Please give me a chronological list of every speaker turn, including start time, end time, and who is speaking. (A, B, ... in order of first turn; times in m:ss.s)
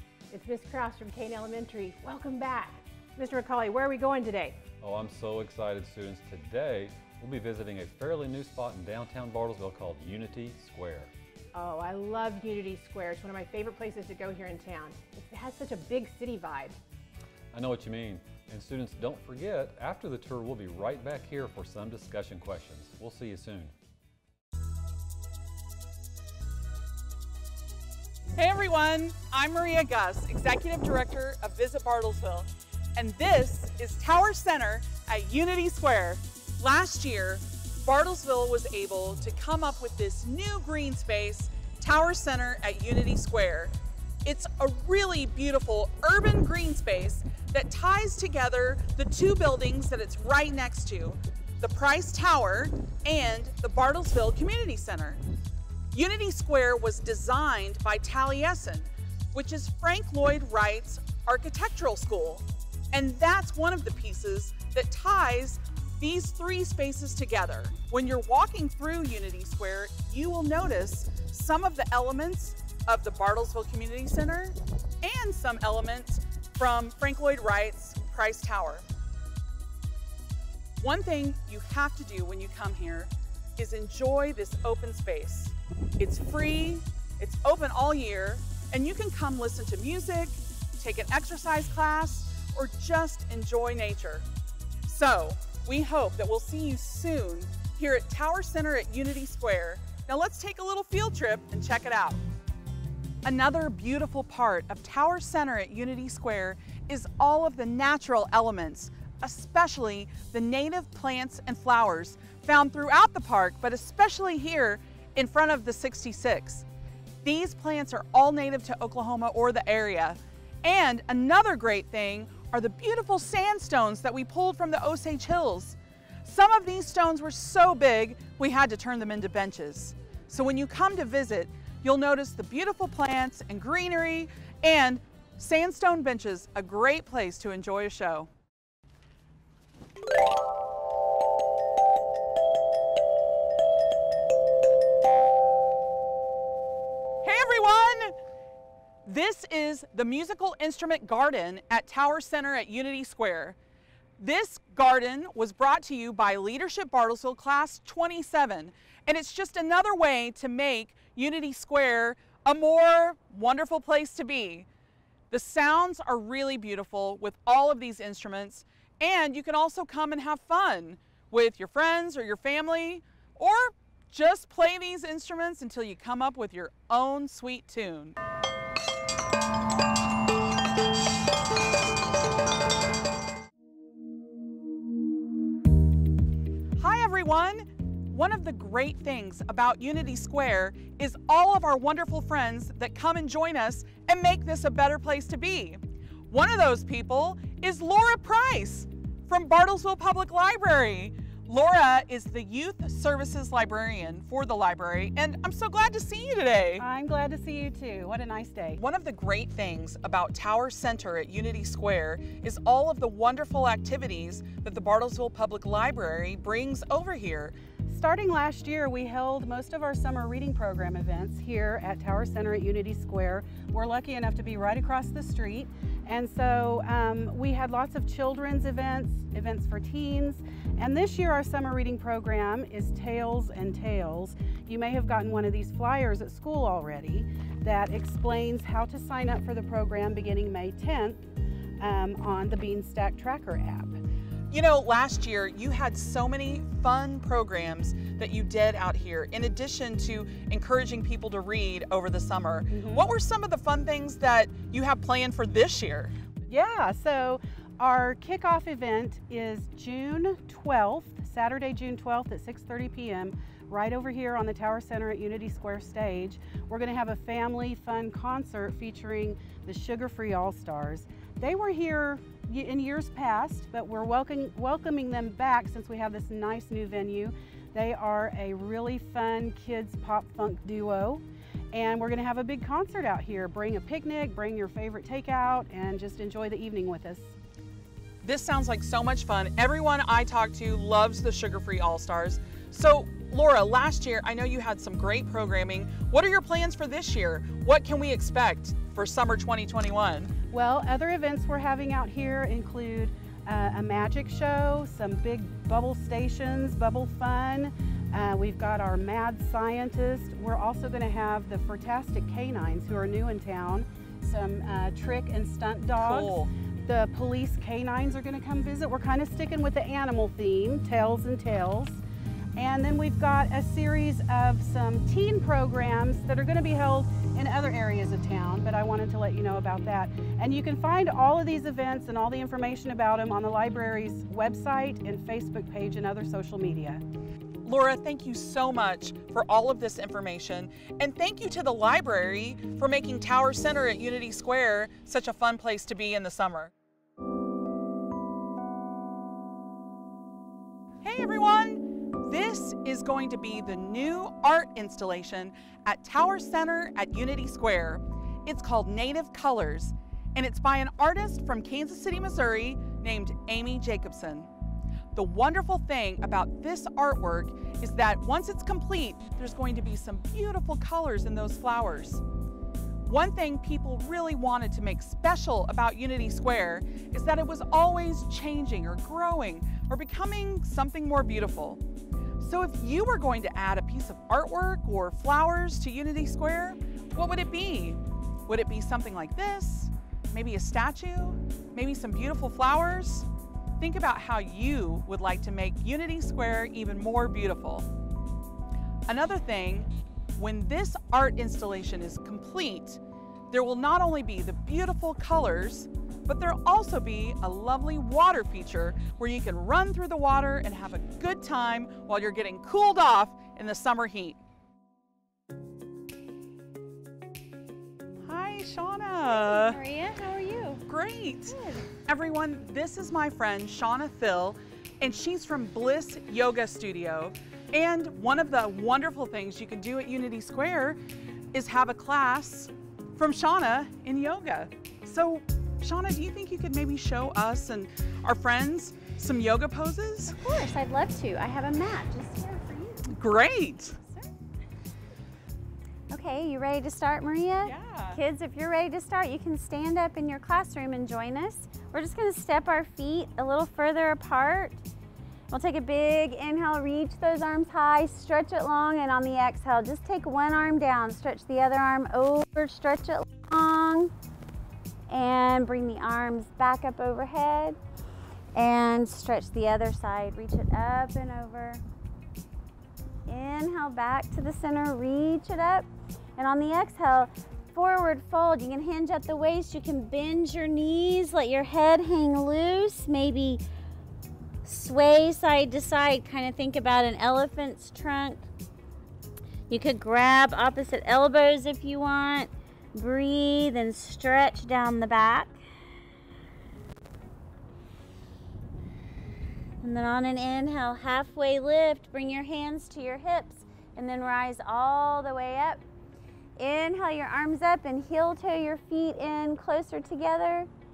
0:00.5-0:02.8 A
0:04.8-0:11.1 B
0:11.8-0:12.4 A
0:13.0-0:13.3 A
0:14.4-0:15.5 A
0:17.5-0:23.7 B
0:28.4-0:43.7 C
0:44.2-0:55.2 C
0:55.9-1:18.8 C
1:20.8-1:34.3 C
1:34.9-1:42.2 C
1:43.2-1:56.7 C
1:57.2-2:18.3 C
2:27.2-2:28.1 C
2:29.0-2:33.6 C
2:34.2-2:44.7 C
2:45.3-2:58.2 C
3:06.8-3:26.8 C
3:26.8-3:28.8 D
3:28.8-3:37.6 C
3:37.9-4:01.2 D
4:01.8-4:04.0 D
4:04.5-4:16.1 C
4:12.7-4:13.0 D
4:16.5-4:47.4 D
4:48.2-5:00.3 C
5:00.5-5:22.0 D
5:16.0-5:16.5 C
5:22.6-5:37.0 D
5:37.6-5:46.7 C
5:51.0-6:04.5 C
6:05.2-6:12.2 C
6:13.0-6:21.8 C
6:22.4-6:33.3 C
6:33.8-6:37.9 C
6:39.1-6:43.0 C
6:43.5-6:54.4 C
6:58.3-6:59.8 C
6:59.2-7:00.8 E
7:00.9-7:01.5 C
7:01.5-7:01.9 E
7:02.1-7:11.0 C
7:11.5-7:20.4 C
7:20.3-7:23.2 E
7:23.1-7:24.0 C
7:26.1-7:34.8 E
7:27.6-7:28.2 C
7:35.5-7:44.1 E
7:45.1-7:47.8 E
7:48.5-7:51.8 E
7:53.3-8:03.6 E
8:04.6-8:08.5 E
8:09.7-8:15.6 E
8:19.8-8:25.8 E
8:26.6-8:30.7 E